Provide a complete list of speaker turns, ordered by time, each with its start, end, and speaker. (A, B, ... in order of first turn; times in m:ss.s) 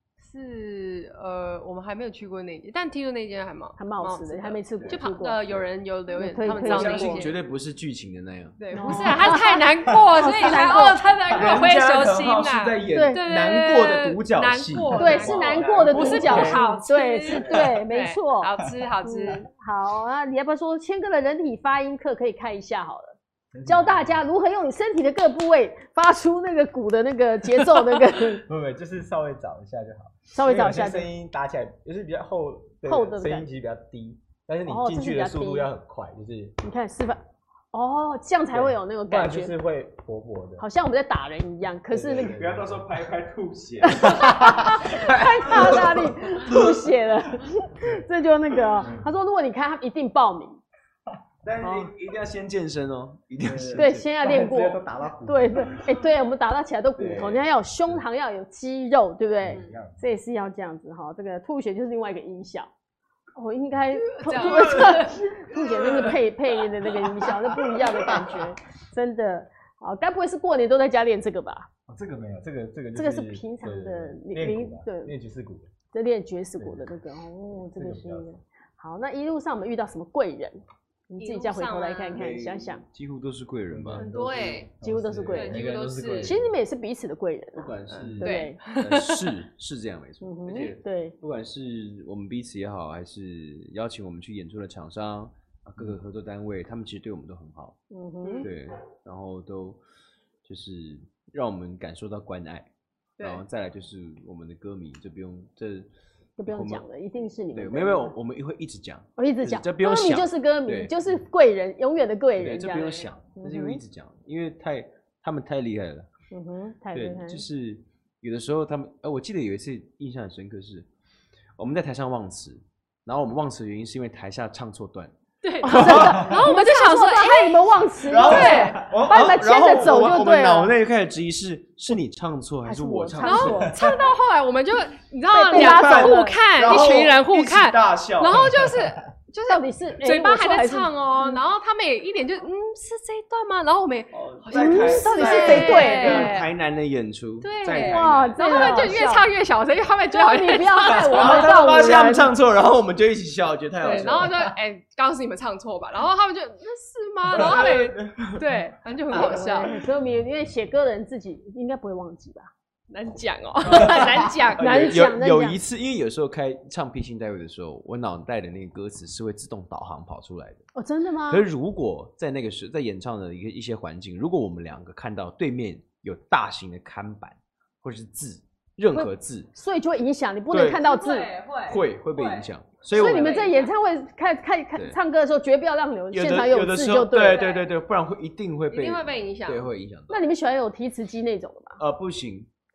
0:00.2-0:07.3 A
0:03.8-0:05.4 B
0:06.2-0:07.3 B
0:06.6-0:09.2 C
0:08.6-0:19.5 A
0:08.7-0:11.1 B
0:11.3-0:16.6 C
0:12.9-0:13.2 B
0:14.9-0:18.5 B
0:16.0-0:16.6 D
0:19.0-0:28.4 B
0:23.5-0:24.2 D
0:28.4-0:36.6 D
0:30.3-0:31.1 B
0:32.8-0:33.5 B
0:34.6-0:35.7 B
0:36.6-0:39.6 B
0:38.5-0:40.6 D
0:40.6-0:42.4 B
0:41.9-0:42.9 D
0:42.1-0:44.8 C
0:43.8-0:50.6 B
0:44.0-0:46.6 D
0:45.4-0:46.6 C
0:48.8-0:49.1 D
0:51.4-0:54.0 C
0:51.6-0:51.9 B
0:53.4-0:56.0 D
0:53.8-1:02.7 B
0:57.0-0:57.5 C
0:59.4-1:00.1 D
1:03.3-1:11.7 B
1:04.0-1:05.2 A
1:11.9-1:15.7 D
1:12.9-1:15.1 B
1:15.9-1:22.8 B
1:16.6-1:17.0 D
1:17.7-1:18.3 D
1:21.2-1:22.3 A
1:22.1-1:24.1 C
1:23.7-1:26.6 D
1:24.0-1:24.7 A
1:24.8-1:25.7 B
1:25.3-1:26.3 A
1:26.2-1:28.6 B
1:27.6-1:37.8 C
1:27.9-1:28.3 D
1:28.2-1:29.3 A
1:30.2-1:31.1 B
1:37.9-1:38.5 B
1:38.2-1:38.5 A
1:38.4-1:39.8 C
1:40.4-1:45.9 C
1:43.2-1:43.4 A
1:46.4-1:48.1 B
1:46.5-1:46.8 C
1:47.5-1:51.0 C
1:49.2-1:53.8 B
1:52.4-1:56.1 C
1:56.3-1:57.4 B
1:56.9-2:00.9 C
2:01.6-2:06.3 C
2:05.4-2:08.8 A
2:05.6-2:10.7 B
2:08.0-2:13.9 C
2:08.5-2:08.9 D
2:12.6-2:13.8 B
2:13.2-2:26.5 A
2:15.3-2:16.4 B
2:15.5-2:18.7 C
2:19.4-2:21.4 B
2:24.1-2:28.9 C
2:24.5-2:26.3 B
2:27.4-2:31.6 A
2:27.7-2:29.3 B
2:30.1-2:32.3 B
2:30.9-2:34.5 C
2:33.8-2:39.8 A
2:37.3-2:38.4 C
2:37.3-2:37.6 D
2:39.1-2:42.5 B
2:42.9-2:44.9 A
2:43.7-2:50.6 C
2:43.8-2:45.6 B
2:50.7-2:51.4 B
2:51.3-2:59.5 C
2:58.9-3:01.3 B
3:00.5-3:00.8 C
3:00.7-3:03.7 A
3:01.7-3:03.4 C
3:02.9-3:07.4 B
3:06.1-3:10.2 C
3:07.2-3:07.7 A
3:08.7-3:09.7 A
3:10.1-3:11.8 B
3:11.8-3:12.5 C